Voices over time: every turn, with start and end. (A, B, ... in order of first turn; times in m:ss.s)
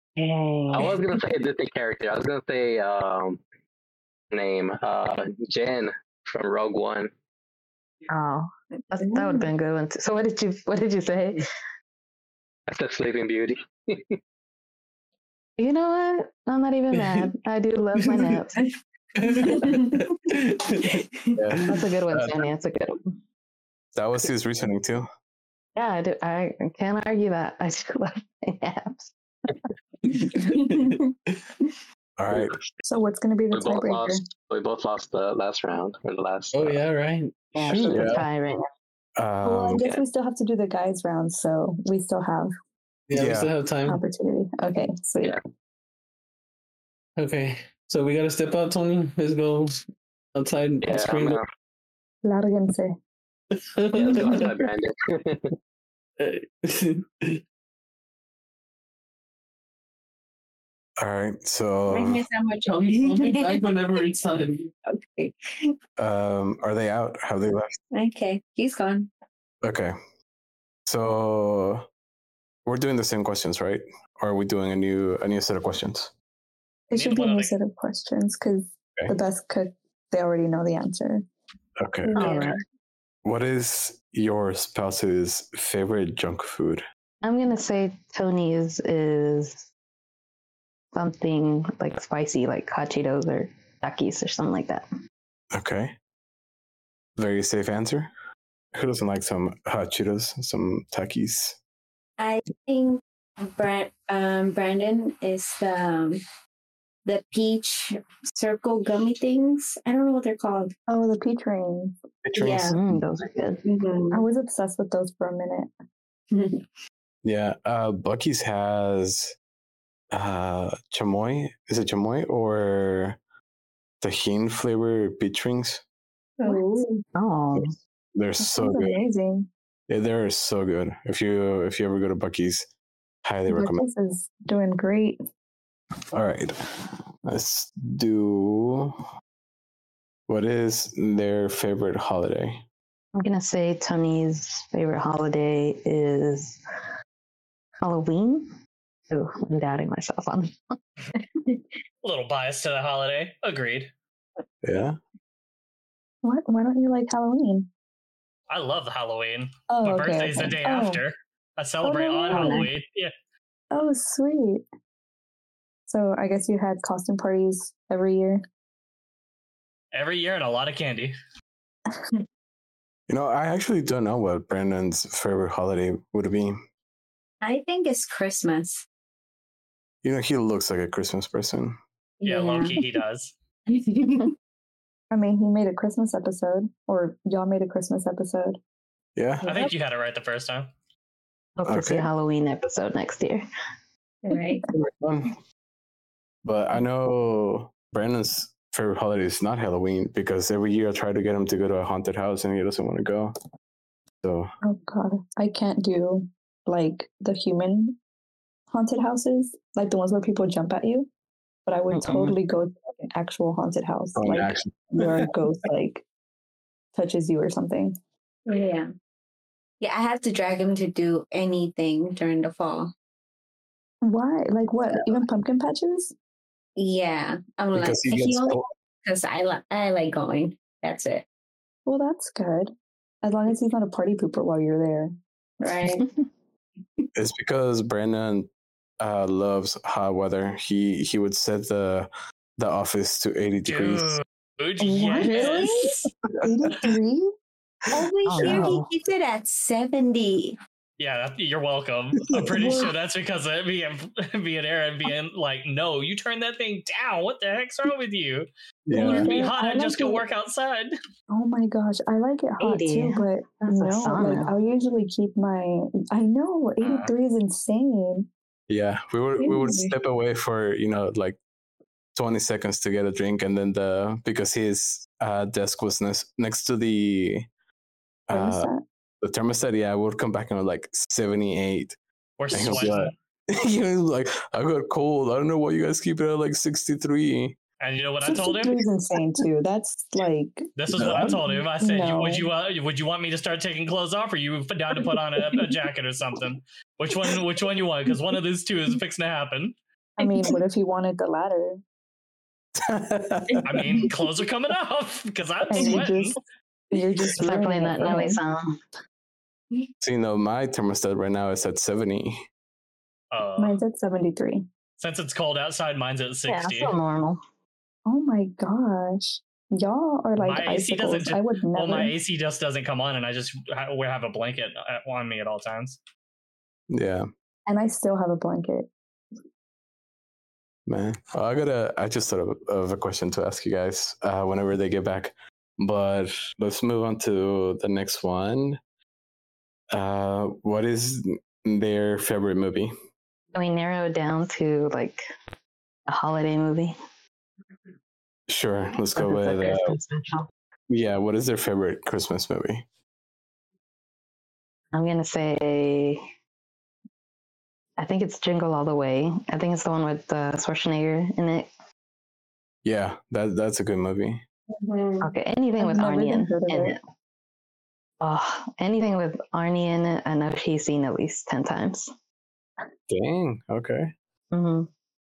0:00.2-0:01.1 A
0:00.7-0:03.4 B
0:04.3-0:07.1 B
0:08.1-0:11.5 A
0:09.0-0:09.5 C
0:12.7-0:14.2 B
0:15.6-0:18.6 A
0:16.9-0:17.3 D
0:18.0-0:18.4 D
0:19.2-0:21.8 D
0:19.2-0:20.0 C
0:21.0-0:21.4 C
0:21.4-0:22.4 E
0:21.7-0:23.1 A
0:23.9-0:25.1 E
0:25.8-0:29.6 A
0:30.0-0:31.5 D
0:30.4-0:31.1 C
0:32.2-0:32.6 E
0:32.3-0:32.6 B
0:32.8-0:34.2 F
0:33.5-0:36.8 B
0:36.5-0:38.2 D
0:37.5-0:38.7 A
0:37.9-0:38.2 E
0:39.2-0:39.8 E
0:39.4-0:42.5 F
0:43.1-0:44.0 D
0:43.1-0:43.5 E
0:43.8-0:45.4 F
0:47.2-0:49.8 D
0:50.3-0:51.4 D
0:50.8-0:51.4 B
0:52.2-0:53.0 F
0:53.5-0:54.5 D
0:53.9-0:55.5 B
0:56.2-0:57.4 D
1:01.0-1:02.2 E
1:01.9-1:04.0 C
1:03.0-1:04.7 D
1:04.8-1:05.8 C
1:06.0-1:07.8 E
1:07.9-1:09.1 C
1:09.6-1:09.9 E
1:10.8-1:11.8 E
1:12.6-1:16.1 E
1:16.9-1:21.2 F
1:16.9-1:17.5 G
1:21.8-1:22.4 E
1:22.1-1:22.5 F
1:22.1-1:22.6 A
1:22.2-1:22.5 C
1:23.2-1:26.8 E
1:27.2-1:29.7 A
1:30.9-1:34.8 A
1:35.5-1:35.9 E
1:37.2-1:38.1 E
1:38.7-1:41.6 E
1:42.2-1:46.2 C
1:47.0-1:50.7 C
1:50.9-1:51.9 F
1:52.2-1:53.0 E
1:52.3-1:52.8 C
1:52.7-1:53.6 A
1:53.6-1:54.2 C
1:54.1-1:55.7 F
1:56.3-1:56.6 C
1:57.2-1:59.3 E
2:00.1-2:03.2 E
2:04.0-2:05.8 E
2:06.4-2:07.0 C
2:06.4-2:06.8 F
2:07.1-2:07.7 A
2:08.1-2:09.0 E
2:08.4-2:09.5 F
2:09.9-2:12.7 E
2:13.2-2:13.8 E
2:13.5-2:15.2 F
2:16.1-2:16.5 E
2:17.2-2:19.0 E
2:20.3-2:22.6 E
2:23.1-2:26.6 A
2:27.8-2:28.5 A
2:29.1-2:31.2 A
2:32.0-2:33.9 G
2:34.6-2:35.0 E
2:36.2-2:37.7 F
2:38.5-2:43.1 G
2:39.7-2:41.0 F
2:41.8-2:42.7 F
2:42.3-2:42.6 C
2:43.7-2:44.6 F
2:45.9-2:48.4 F
2:49.9-2:51.1 G
2:53.1-2:56.6 E
2:57.4-2:58.8 C
3:00.0-3:01.8 E
3:02.2-3:02.8 C
3:02.2-3:03.3 G
3:03.7-3:04.3 C
3:05.1-3:08.6 F
3:09.2-3:09.5 E
3:09.4-3:09.7 C
3:09.4-3:10.7 G
3:11.6-3:13.4 A
3:11.7-3:12.1 E
3:14.2-3:14.6 C
3:14.7-3:15.4 E
3:16.4-3:23.3 E
3:24.2-3:24.5 E
3:24.6-3:28.0 F
3:28.7-3:31.1 F
3:31.6-3:36.0 F
3:31.9-3:32.4 A
3:34.2-3:35.2 E
3:36.9-3:38.0 F
3:38.5-3:38.9 C
3:39.8-3:42.9 C
3:44.0-3:46.1 F
3:46.8-3:51.2 C
3:47.7-3:48.6 E
3:51.8-3:52.7 F
3:53.2-3:55.1 F
3:55.6-3:56.1 C
3:57.1-3:58.5 E
3:59.0-4:04.2 E
4:03.6-4:05.9 G
4:04.8-4:06.1 C
4:05.1-4:05.6 F
4:06.4-4:07.3 F
4:07.9-4:10.6 C
4:08.2-4:08.9 A
4:11.0-4:20.9 G
4:12.3-4:12.7 E
4:12.5-4:12.9 F
4:18.9-4:19.3 E
4:18.9-4:20.2 F
4:21.3-4:28.3 F
4:22.6-4:24.5 A
4:26.8-4:27.1 G
4:28.7-4:31.4 E
4:29.4-4:29.8 C
4:29.4-4:29.9 F
4:32.1-4:37.5 E
4:38.3-4:38.7 E
4:38.3-4:38.8 F
4:39.2-4:42.0 E
4:42.4-4:43.1 G
4:42.5-4:47.6 E
4:47.8-4:48.8 G
4:48.2-4:50.6 F
4:50.8-4:59.8 G
4:51.0-4:51.4 E
4:51.8-4:52.5 F
5:00.2-5:01.8 F
5:02.8-5:03.9 E
5:03.6-5:06.4 G
5:05.7-5:06.4 F
5:06.9-5:08.4 F
5:07.4-5:08.8 A
5:10.0-5:12.4 E
5:13.3-5:13.8 G
5:13.6-5:14.6 F
5:15.0-5:16.9 G
5:16.5-5:17.4 A
5:18.0-5:22.1 F
5:20.4-5:26.0 G
5:26.9-5:27.3 E
5:27.7-5:28.9 F
5:30.9-5:38.8 E
5:39.9-5:42.9 E
5:43.5-5:45.2 A
5:46.1-5:46.9 A
5:48.5-5:49.9 E
5:49.2-5:50.5 A
5:50.9-5:52.8 E
5:54.9-5:56.2 A
5:58.0-6:01.7 A
6:02.8-6:04.4 E
6:04.7-6:05.3 C
6:05.2-6:07.0 A
6:05.8-6:07.0 F
6:08.2-6:12.1 A
6:13.1-6:14.1 E
6:14.5-6:14.9 A